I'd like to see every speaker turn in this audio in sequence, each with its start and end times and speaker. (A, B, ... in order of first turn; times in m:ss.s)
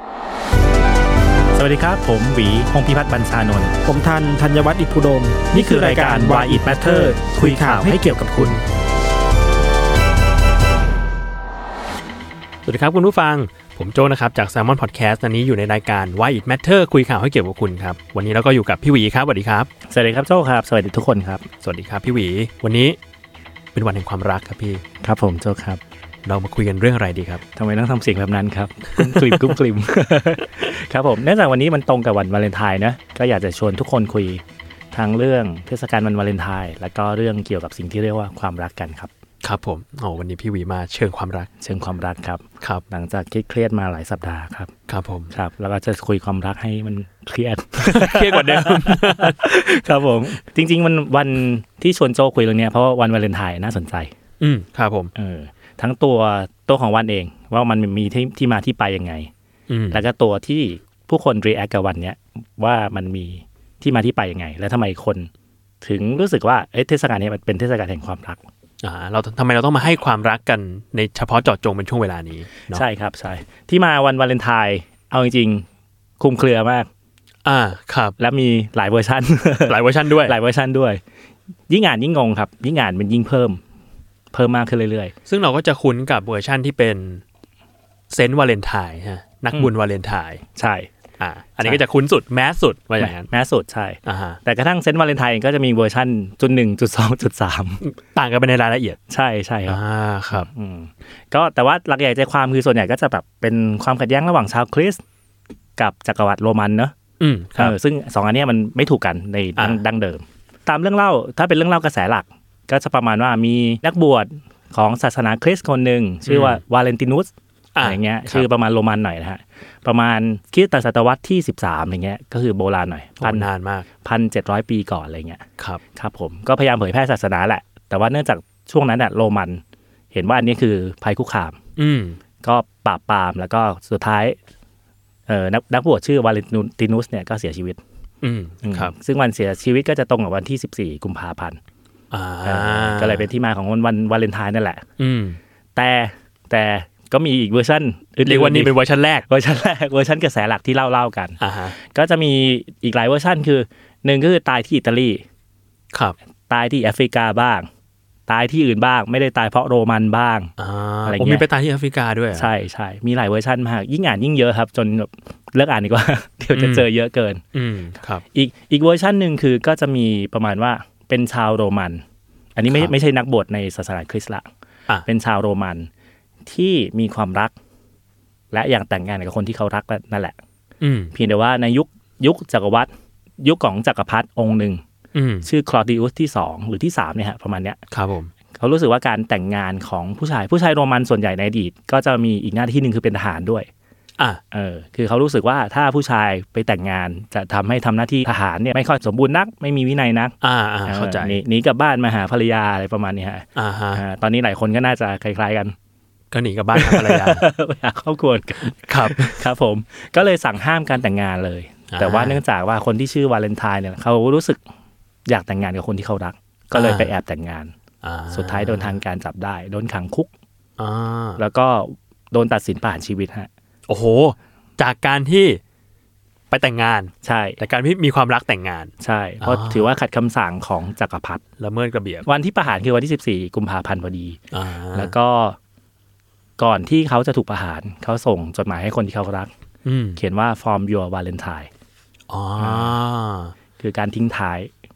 0:01.6-0:03.7 A
0:03.8-0:08.6 B
0:05.5-0:08.6 A
0:12.7-0:19.7 C
0:19.9-0:21.5 A
0:21.6-0:23.0 C
0:23.8-0:24.8 C
0:25.0-0:25.8 A
0:26.2-0:27.4 C
0:27.6-0:39.1 A
0:39.4-0:41.5 C
0:41.6-0:44.7 A
0:44.9-0:45.3 C
0:45.3-0:54.1 A
0:47.8-0:49.4 C
0:54.4-0:55.1 C
0:55.2-0:59.3 A
0:59.7-1:00.0 C
0:59.9-1:05.3 A
1:05.8-1:08.4 A
1:08.8-1:12.8 C
1:12.7-1:15.7 A
1:16.2-1:16.9 A
1:17.4-1:18.2 C
1:18.2-1:21.0 A
1:19.7-1:20.4 C
1:21.7-1:23.6 A
1:24.3-1:25.1 A
1:25.3-1:27.2 C
1:28.1-1:30.4 C
1:30.6-1:30.9 A
1:31.2-1:33.3 C
1:33.0-1:37.8 A
1:34.0-1:34.4 C
1:37.8-1:39.0 C
1:39.1-1:39.8 A
1:39.7-1:40.5 C
1:40.3-1:45.0 A
1:45.8-1:46.9 A
1:47.2-1:47.8 C
1:47.6-2:03.5 A
1:56.3-1:56.6 C
1:57.8-1:58.4 C
2:03.2-2:03.9 C
2:04.0-2:11.6 A
2:11.8-2:12.2 C
2:12.4-2:14.4 A
2:15.3-2:17.8 A
2:18.2-2:18.9 C
2:18.6-2:21.6 A
2:22.1-2:23.3 C
2:22.4-2:24.8 A
2:25.0-2:25.4 C
2:25.8-2:28.7 A
2:28.3-2:29.2 C
2:29.3-2:35.2 A
2:31.4-2:31.8 C
2:36.5-2:37.7 A
2:38.3-2:40.5 A
2:40.6-2:42.5 C
2:41.0-2:41.4 A
2:42.4-2:47.4 A
2:46.6-2:46.9 C
2:47.6-2:48.2 C
2:48.3-2:52.0 A
2:52.6-2:54.5 A
2:55.1-2:55.9 A
2:56.5-2:57.5 A
2:58.5-3:00.4 A
3:00.8-3:01.1 C
3:01.1-3:04.8 A
3:05.1-3:05.5 C
3:05.4-3:07.8 A
3:07.9-3:08.3 C
3:08.6-3:13.7 A
3:14.5-3:20.3 A
3:20.4-3:21.4 C
3:20.9-3:25.8 A
3:23.6-3:24.0 C
3:26.3-3:27.4 C
3:26.7-3:34.6 A
3:28.7-3:29.4 C
3:31.9-3:32.4 C
3:35.3-3:37.7 A
3:36.7-3:37.1 C
3:38.0-3:39.0 C
3:38.3-3:40.3 A
3:40.8-3:41.4 C
3:41.4-3:43.5 A
3:43.9-3:45.6 C
3:46.5-3:49.8 C
3:47.2-3:47.6 A
3:49.0-3:51.4 A
3:51.6-3:52.3 C
3:52.3-3:54.4 A
3:54.5-3:55.1 C
3:54.9-3:55.6 A
3:56.6-3:59.5 A
3:59.8-4:00.2 C
4:00.2-4:01.7 A
4:02.3-4:03.5 C
4:02.6-4:03.0 A
4:03.8-4:04.7 A